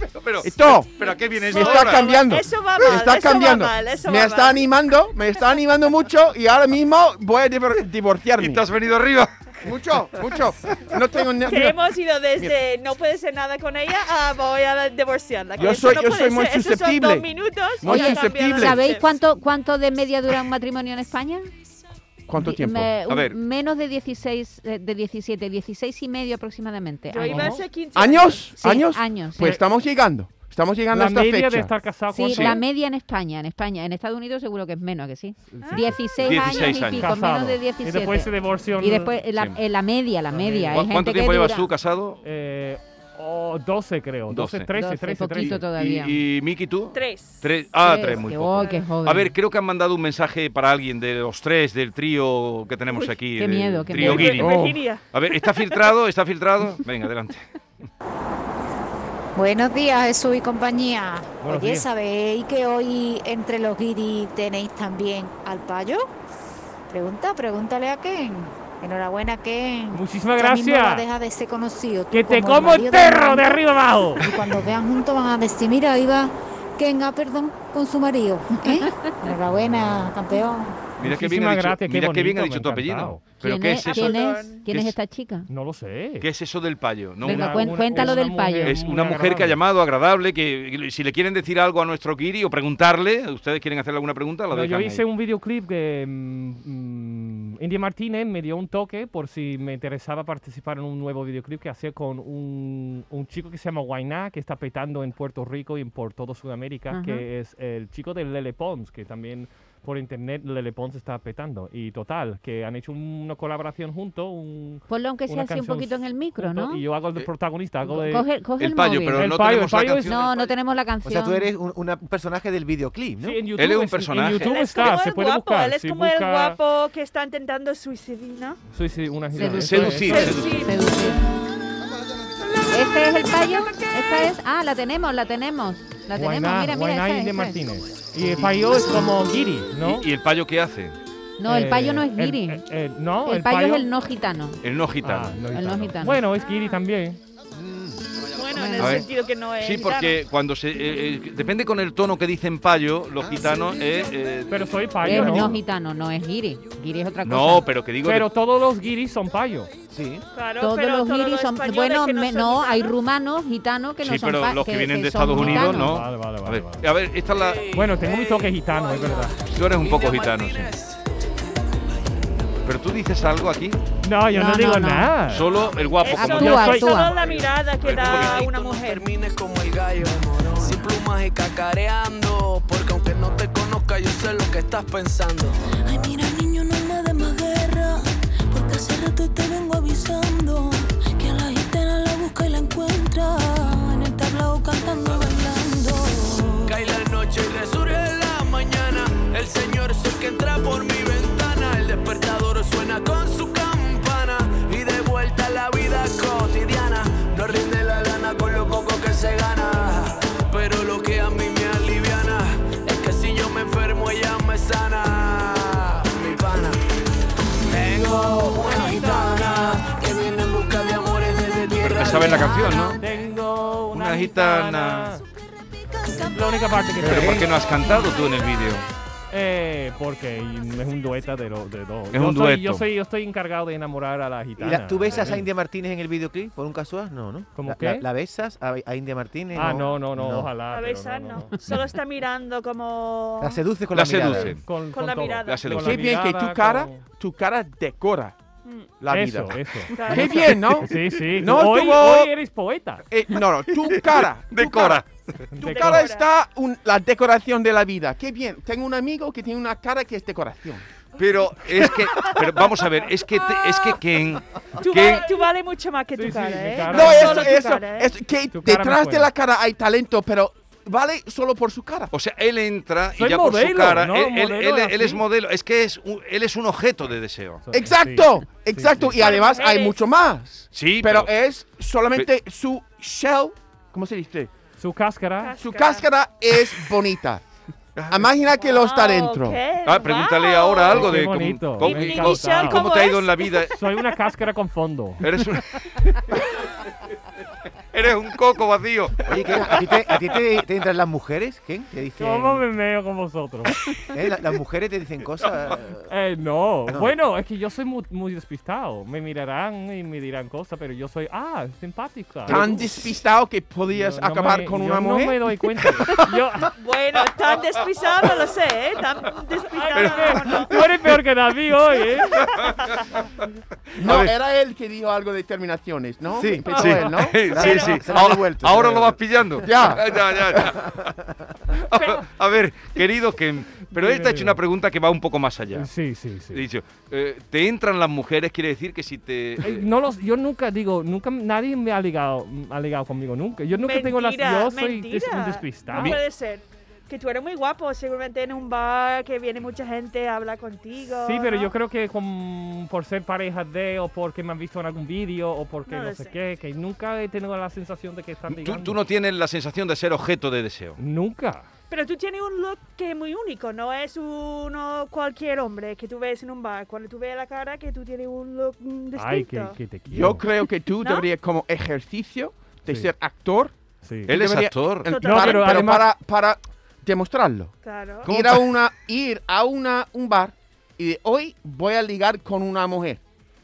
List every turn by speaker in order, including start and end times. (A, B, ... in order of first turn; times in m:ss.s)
0:00.2-0:02.2 A
0:00.4-0:00.9 B
0:01.4-0:04.6 C
0:01.5-0:08.6 B
0:08.4-0:09.5 A
0:09.6-0:11.8 B
0:11.5-0:19.2 C
0:15.6-0:17.3 B
0:17.8-0:18.8 B
0:17.8-0:21.5 D
0:22.3-0:22.9 B
0:22.4-0:27.6 D
0:23.1-0:23.4 A
0:27.1-0:28.6 C
0:27.2-0:27.6 E
0:28.0-0:31.7 B
0:28.6-0:29.6 D
0:30.9-0:32.6 E
0:32.1-0:41.7 D
0:35.5-0:39.2 E
0:36.2-0:37.1 A
0:40.3-0:40.8 E
0:40.7-0:42.2 A
0:42.2-0:45.6 E
0:44.3-0:44.7 A
0:44.7-0:46.2 D
0:45.4-0:57.5 A
0:46.9-0:47.5 C
0:47.8-0:49.3 D
0:48.6-0:48.9 C
0:53.4-0:54.6 D
0:54.0-0:55.8 C
0:54.2-0:54.8 B
0:59.4-1:06.1 F
1:01.4-1:01.9 E
1:06.9-1:13.6 F
1:09.9-1:11.0 E
1:12.1-1:14.3 E
1:14.2-1:20.8 F
1:18.6-1:19.2 D
1:19.6-1:20.1 E
1:21.0-1:25.0 A
1:21.0-1:23.2 E
1:23.4-1:25.5 D
1:23.8-1:24.7 C
1:25.5-1:26.3 E
1:26.2-1:35.0 A
1:27.2-1:29.6 E
1:27.2-1:28.8 D
1:34.5-1:58.3 E
1:46.9-1:47.2 D
1:54.9-1:56.8 D
1:57.9-1:59.4 D
1:58.6-2:00.5 A
1:59.2-2:00.2 E
2:00.0-2:01.5 D
2:01.0-2:03.4 G
2:03.2-2:06.6 E
2:03.6-2:04.9 A
2:04.4-2:08.6 C
2:08.7-2:10.4 E
2:09.4-2:10.7 A
2:09.4-2:11.2 D
2:10.0-2:10.8 C
2:12.7-2:17.6 D
2:16.1-2:20.1 E
2:19.8-2:21.0 A
2:21.4-2:22.6 D
2:21.5-2:23.9 E
2:23.2-2:24.6 D
2:24.6-2:25.4 A
2:25.0-2:27.2 E
2:25.5-2:26.2 D
2:27.5-2:28.0 G
2:28.3-2:30.2 C
2:28.6-2:29.0 D
2:28.8-2:29.1 A
2:29.6-2:35.6 A
2:34.5-2:35.6 E
2:35.0-2:37.7 D
2:37.2-2:38.3 A
2:38.0-2:39.7 E
2:39.9-2:40.2 G
2:40.3-2:43.0 C
2:40.6-2:46.0 D
2:44.0-2:47.7 A
2:45.3-2:46.8 E
2:47.3-2:51.0 H
2:47.7-2:49.3 E
2:49.5-2:50.7 A
2:52.6-2:53.8 A
2:54.0-2:55.5 E
2:54.3-2:55.2 D
2:55.3-2:56.8 A
2:55.6-2:55.9 H
2:56.0-2:59.1 C
2:56.1-2:57.2 D
2:56.4-2:57.0 E
2:57.0-3:05.6 H
2:57.8-2:58.4 A
3:05.8-3:16.8 I
3:16.7-3:36.8 H
3:37.6-3:42.9 H
3:41.8-3:43.0 A
3:43.0-3:45.2 E
3:43.9-3:45.2 A
3:46.1-3:46.9 I
3:46.1-3:47.4 E
3:47.0-3:47.5 G
3:47.0-3:48.9 A
3:47.9-3:48.5 I
3:49.3-3:55.5 E
3:52.1-3:52.8 A
3:54.6-4:00.6 G
3:57.6-3:58.1 E
3:59.5-4:01.6 E
4:00.7-4:03.6 C
4:03.4-4:04.6 G
4:03.9-4:04.6 A
4:04.3-4:07.0 E
4:04.7-4:05.8 C
4:05.5-4:06.0 A
4:05.7-4:08.4 B
4:08.6-4:08.9 C
4:09.0-4:12.3 B
4:09.1-4:13.0 E
4:09.9-4:10.6 C
4:13.1-4:15.0 B
4:13.8-4:15.2 A
4:15.5-4:16.1 E
4:15.6-4:20.8 B
4:15.6-4:16.2 C
4:21.2-4:25.3 A
4:24.8-4:28.1 C
4:26.2-4:27.6 E
4:26.9-4:32.1 B
4:28.5-4:29.3 E
4:32.1-4:37.6 A
4:33.2-4:35.2 E
4:37.6-4:39.1 E
4:37.7-4:44.5 B
4:39.1-4:40.0 C
4:40.7-4:41.3 A
4:44.8-4:45.6 E
4:45.4-4:46.1 C
4:45.6-4:47.4 B
4:48.0-4:48.3 A
4:48.1-4:49.6 B
4:48.6-4:51.2 C
4:49.8-4:53.8 A
4:50.9-4:52.9 E
4:51.8-4:53.7 C
4:53.7-4:55.3 E
4:55.2-4:56.5 A
4:57.9-5:00.4 A
4:59.3-5:02.7 G
5:02.2-5:03.8 E
5:04.0-5:06.1 G
5:06.1-5:12.8 E
5:06.9-5:07.2 G
5:12.5-5:15.4 B
5:12.5-5:12.8 A
5:13.9-5:16.7 E
5:16.8-5:20.8 C
5:19.7-5:22.6 E
5:19.9-5:20.9 A
5:22.4-5:22.8 A
5:22.5-5:23.0 C
5:24.0-5:24.3 A
5:24.0-5:27.5 B
5:26.3-5:26.8 G
5:26.7-5:31.1 A
5:27.4-5:29.9 G
5:27.5-5:28.1 C
5:29.6-5:30.2 B
5:30.6-5:31.1 G
5:31.7-5:35.9 A
5:31.9-5:32.3 C
5:33.9-5:34.6 E
5:35.8-5:36.6 E
5:36.5-5:39.9 A
5:39.6-5:46.2 E
5:43.7-5:51.7 C
5:51.2-5:59.0 E
5:55.9-5:56.3 C
5:58.5-6:01.0 A
6:01.0-6:01.7 E
6:01.9-6:09.8 C
6:09.2-6:10.4 E
6:10.1-6:23.2 B
6:11.0-6:11.3 C
6:12.9-6:13.1 E
6:14.0-6:14.3 E
6:14.3-6:15.1 A
6:15.1-6:15.9 C
6:15.1-6:16.1 E
6:17.8-6:18.3 C
6:18.3-6:18.8 A